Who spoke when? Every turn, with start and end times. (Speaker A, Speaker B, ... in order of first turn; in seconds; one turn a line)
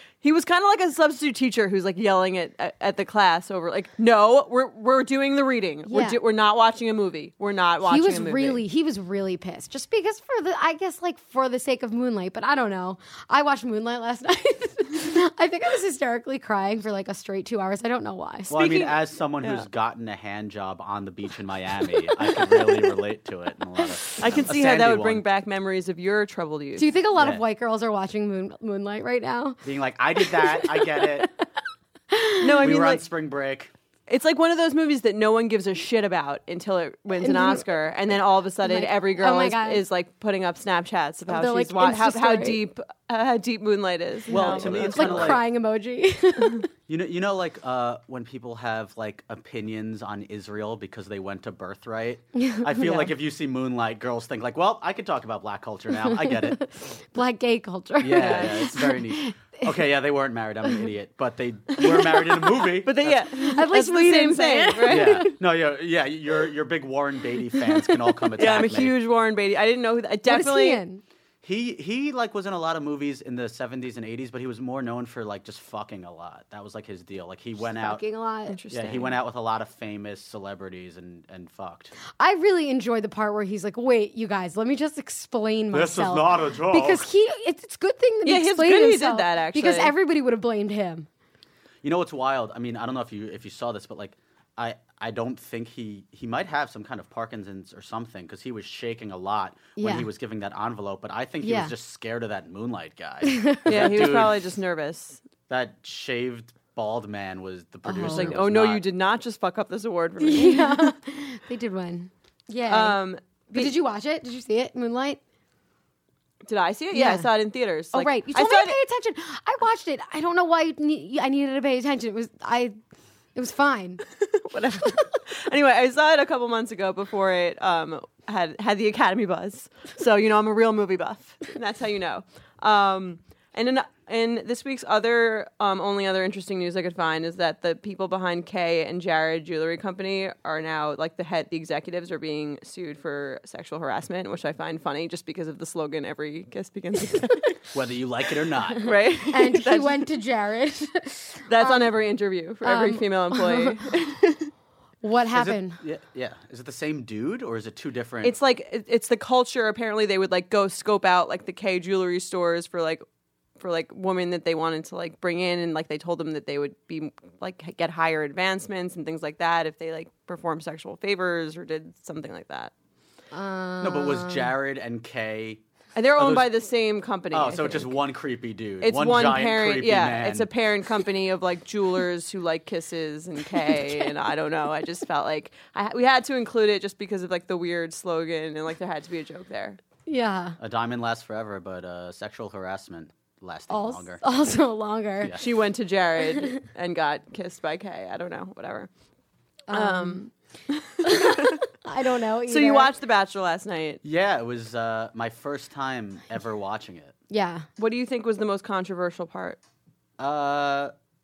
Speaker A: 0.2-8.6
Speaker B: 5.9-6.2
Speaker B: 7.8-18.6
Speaker C: 18.5-25.2
Speaker A: 18.5-19.7
Speaker A: 22.5-22.9
Speaker A: 24.2-26.9
Speaker B: 26.8-29.6
Speaker C: 27.2-27.4
Speaker C: 29.6-31.3
Speaker B: 30.2-31.3
Speaker B: 32.1-32.7
Speaker A: 32.4-33.0
Speaker C: 32.6-33.7
Speaker A: 34.1-45.4
Speaker B: 37.2-37.7
Speaker B: 38.6-39.8
Speaker B: 41.3-42.6
Speaker B: 44.3-46.7
Speaker C: 44.3-45.4
Speaker C: 46.9-56.6
Speaker B: 52.4-53.1
Speaker B: 55.9-59.7
Speaker C: 58.0-63.2
Speaker A: 58.2-58.5
Speaker B: 61.8-62.6
Speaker A: 62.8-65.3
Speaker B: 63.3-65.3
Speaker C: 64.9-69.0
Speaker B: 67.7-68.1
Speaker A: 68.4-70.8
Speaker B: 70.3-71.0
Speaker C: 71.4-78.0
Speaker B: 77.6-78.6
Speaker A: 78.5-79.1
Speaker C: 78.7-81.9
Speaker B: 82.2-91.1
Speaker C: 85.7-87.1
Speaker A: 88.2-89.9
Speaker C: 91.8-104.4
Speaker B: 99.8-100.1
Speaker B: 101.4-101.7
Speaker B: 103.2-103.9
Speaker A: 103.7-105.2
Speaker C: 105.5-108.8
Speaker B: 107.9-108.4
Speaker A: 108.0-110.9
Speaker B: 110.2-113.0
Speaker A: 112.7-113.8
Speaker B: 113.5-115.2
Speaker A: 116.4-118.8
Speaker B: 116.9-117.3
Speaker B: 117.9-122.8
Speaker B: 123.3-124.0
Speaker A: 124.2-147.5
Speaker C: 147.7-148.9
Speaker A: 148.8-150.1
Speaker B: 149.3-151.9
Speaker A: 151.5-154.5
Speaker B: 152.6-153.8
Speaker B: 155.0-155.8
Speaker C: 155.3-158.4
Speaker A: 158.2-163.0
Speaker A: 163.6-172.7
Speaker B: 173.3-174.5
Speaker C: 173.8-175.6
Speaker A: 175.9-177.9
Speaker C: 176.2-176.5
Speaker C: 177.3-180.5
Speaker A: 178.8-189.8
Speaker B: 183.6-184.1
Speaker B: 190.1-190.6
Speaker C: 190.6-194.2
Speaker B: 193.7-195.4
Speaker A: 195.4-198.9
Speaker B: 199.7-200.2
Speaker A: 199.7-201.6
Speaker B: 201.0-202.9
Speaker A: 202.4-204.0
Speaker C: 204.0-207.1
Speaker B: 207.3-207.7
Speaker A: 207.8-209.6
Speaker C: 210.2-210.9